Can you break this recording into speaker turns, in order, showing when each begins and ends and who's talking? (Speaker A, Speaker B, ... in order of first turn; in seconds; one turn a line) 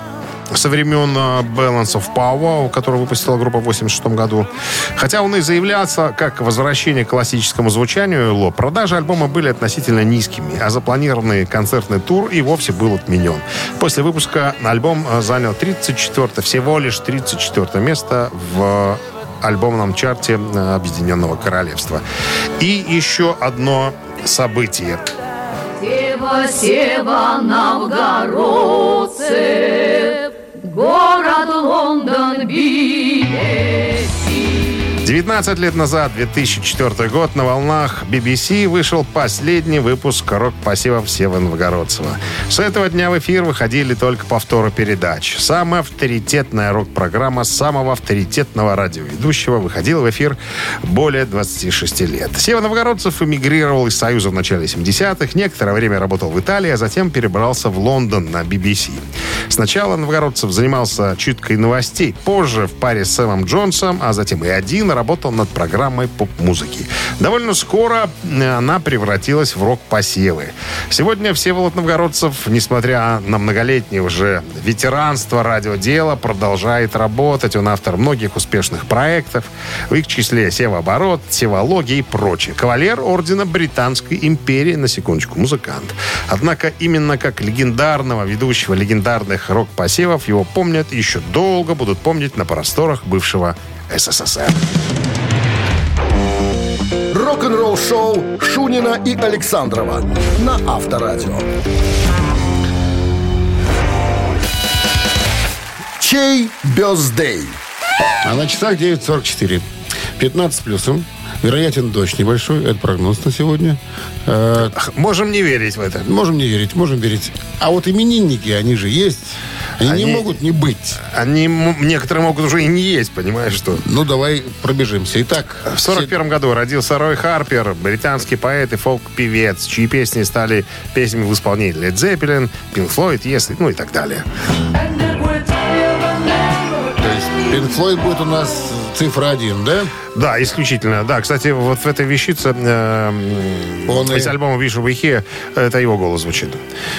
Speaker A: 0.5-22.0
Speaker A: 22.6-25.1
Speaker B: 25.8-34.6
Speaker A: 35.0-94.7
Speaker C: 97.1-101.5
Speaker C: 106.0-107.6
Speaker D: 108.2-109.6
Speaker D: 110.2-114.7
Speaker A: 114.6-116.1
Speaker D: 116.0-121.0
Speaker A: 119.8-120.3
Speaker A: 121.0-123.8
Speaker D: 123.8-126.1
Speaker A: 125.7-134.2
Speaker B: 134.7-137.7
Speaker D: 137.0-139.9
Speaker A: 140.1-146.6
Speaker D: 143.8-144.3